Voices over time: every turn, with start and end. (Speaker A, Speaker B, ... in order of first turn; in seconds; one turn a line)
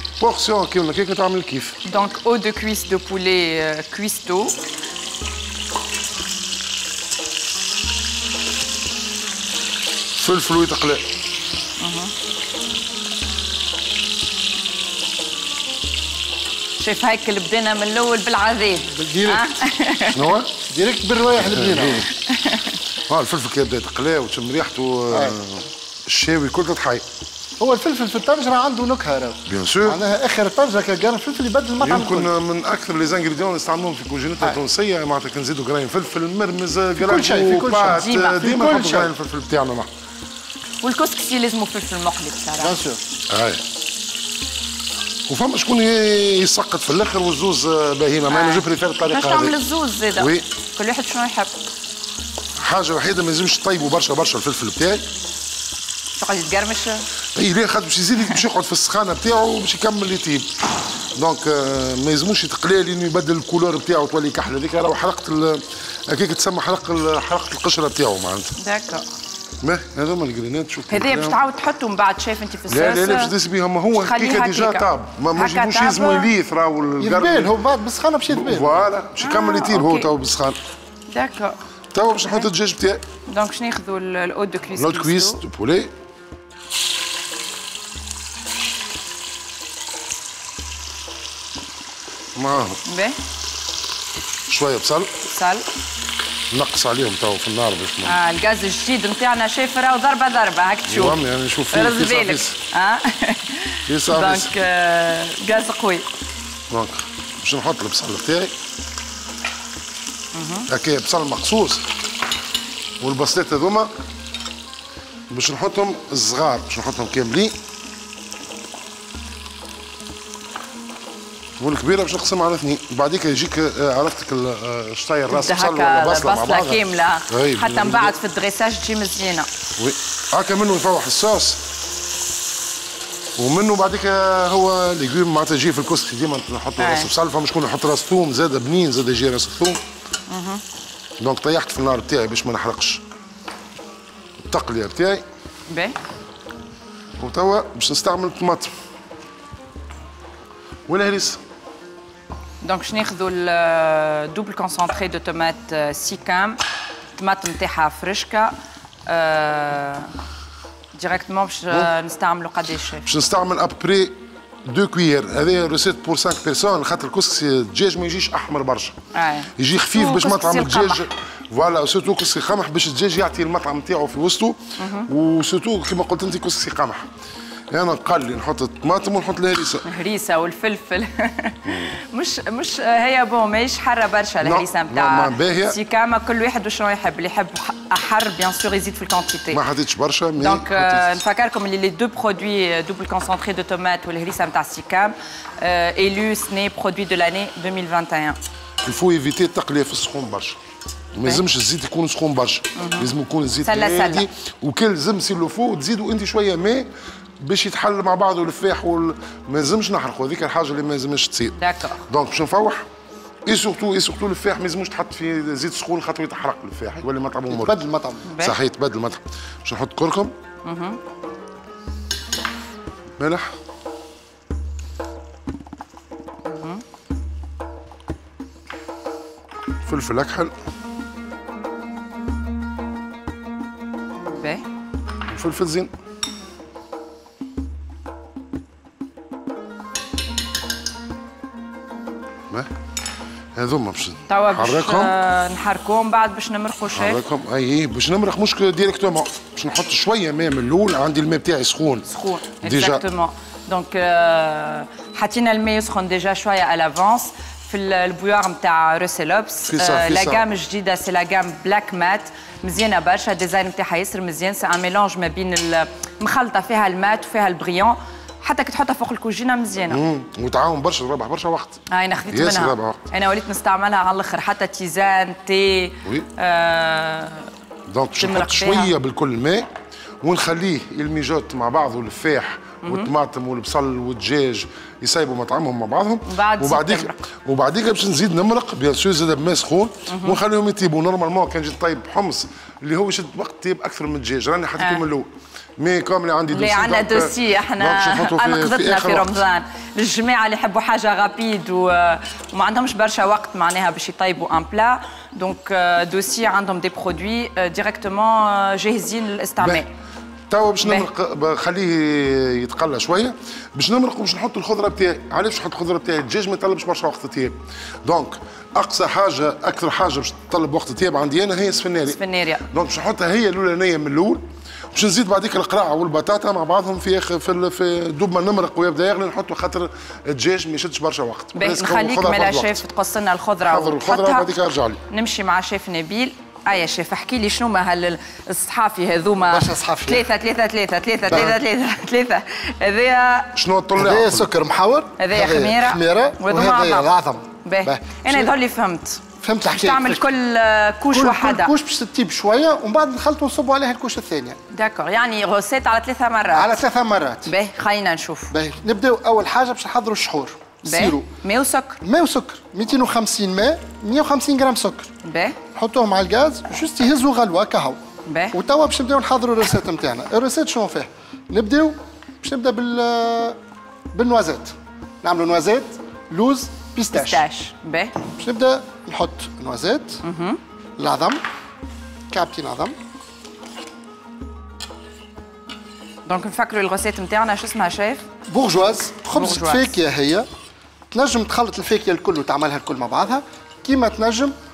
Speaker A: 0.2-1.8
Speaker B: 1.8-4.5
Speaker A: 10.2-11.0
Speaker B: 11.8-12.1
Speaker B: 16.8-20.2
Speaker C: 18.9-19.4
Speaker A: 20.0-20.5
Speaker C: 20.7-22.1
Speaker A: 21.4-22.1
Speaker B: 22.2-22.8
Speaker A: 23.1-27.0
Speaker C: 25.1-25.4
Speaker C: 27.6-32.3
Speaker A: 29.5-30.0
Speaker A: 31.8-39.9
Speaker C: 37.0-39.1
Speaker B: 37.9-38.4
Speaker B: 40.8-42.8
Speaker C: 42.6-43.0
Speaker A: 43.3-43.6
Speaker A: 45.3-49.5
Speaker B: 48.3-51.5
Speaker A: 50.2-50.4
Speaker A: 52.6-55.0
Speaker B: 56.2-57.0
Speaker A: 57.3-60.5
Speaker A: 61.1-68.5
Speaker B: 68.6-69.0
Speaker A: 69.6-71.3
Speaker B: 70.9-73.3
Speaker A: 72.7-77.5
Speaker B: 74.0-76.3
Speaker C: 77.0-78.9
Speaker A: 78.3-80.6
Speaker B: 79.2-80.1
Speaker B: 81.1-81.6
Speaker A: 81.9-83.0
Speaker B: 83.3-85.4
Speaker A: 84.7-85.9
Speaker A: 92.3-92.8
Speaker B: 92.8-93.2
Speaker A: 94.5-95.2
Speaker B: 95.3-95.6
Speaker A: 96.5-98.2
Speaker B: 98.0-101.2
Speaker A: 100.9-102.6
Speaker B: 101.7-106.0
Speaker A: 103.9-104.5
Speaker A: 106.7-108.5
Speaker B: 110.3-110.7
Speaker A: 110.7-111.8
Speaker A: 113.0-113.9
Speaker A: 115.3-117.5
Speaker A: 121.6-128.1
Speaker B: 125.3-129.5
Speaker A: 129.8-131.6
Speaker A: 133.4-139.8
Speaker B: 136.8-137.1
Speaker B: 140.3-140.6
Speaker A: 141.2-143.0
Speaker A: 144.4-145.2
Speaker B: 145.7-145.9
Speaker A: 147.2-148.7
Speaker A: 150.9-151.4
Speaker B: 152.6-156.6
Speaker B: 157.2-158.5
Speaker B: 159.1-160.1
Speaker B: 160.9-163.1
Speaker A: 163.0-168.9
Speaker B: 169.1-171.0
Speaker A: 169.6-177.1
Speaker B: 174.8-175.1
Speaker A: 177.7-179.8
Speaker B: 179.8-189.6
Speaker A: 181.7-181.9
Speaker A: 184.4-185.8
Speaker A: 189.5-191.2
Speaker B: 190.4-198.4
Speaker A: 198.8-200.6
Speaker A: 201.1-206.9
Speaker B: 202.8-203.1
Speaker B: 203.6-204.2
Speaker A: 207.4-211.6
Speaker B: 211.6-212.0
Speaker A: 212.1-212.8
Speaker A: 213.4-217.8
Speaker C: 217.5-218.3
Speaker B: 218.3-218.6
Speaker A: 218.4-220.3
Speaker B: 220.6-221.0
Speaker A: 223.2-223.5
Speaker B: 226.4-226.8
Speaker A: 229.8-230.5
Speaker B: 234.2-234.6
Speaker A: 235.3-235.9
Speaker A: 243.5-245.1
Speaker B: 244.3-247.2
Speaker A: 246.9-252.1
Speaker B: 252.1-270.0
Speaker A: 252.6-253.0
Speaker A: 259.7-260.4
Speaker A: 269.9-271.8
Speaker B: 271.9-277.5
Speaker A: 272.3-273.0
Speaker A: 277.9-279.7
Speaker B: 278.2-278.9
Speaker A: 280.2-299.4
Speaker B: 282.8-283.1
Speaker B: 286.2-287.2
Speaker B: 290.1-290.4
Speaker B: 296.5-309.9
Speaker A: 309.6-309.8
Speaker A: 310.5-322.2
Speaker B: 310.8-311.1
Speaker B: 322.1-322.6
Speaker A: 322.7-332.8
Speaker B: 331.5-334.5
Speaker A: 333.6-335.0
Speaker B: 335.1-343.5
Speaker C: 339.5-340.3
Speaker A: 341.3-341.6
Speaker A: 343.6-344.5
Speaker C: 343.9-348.5
Speaker B: 345.2-347.1
Speaker B: 347.6-351.7
Speaker C: 349.4-350.3
Speaker C: 351.1-354.6
Speaker B: 354.7-356.8
Speaker C: 356.5-357.5
Speaker B: 357.4-358.5
Speaker C: 358.5-361.3
Speaker B: 360.8-362.0
Speaker C: 362.0-365.1
Speaker B: 365.2-365.6
Speaker C: 365.7-368.0
Speaker B: 368.2-368.6
Speaker C: 368.5-373.6
Speaker C: 374.1-377.4
Speaker B: 377.1-378.1
Speaker C: 378.3-380.2
Speaker B: 380.2-380.6
Speaker C: 381.0-381.4
Speaker C: 382.3-382.9
Speaker B: 386.2-388.2
Speaker C: 388.5-390.5
Speaker B: 389.3-389.9
Speaker C: 391.1-394.5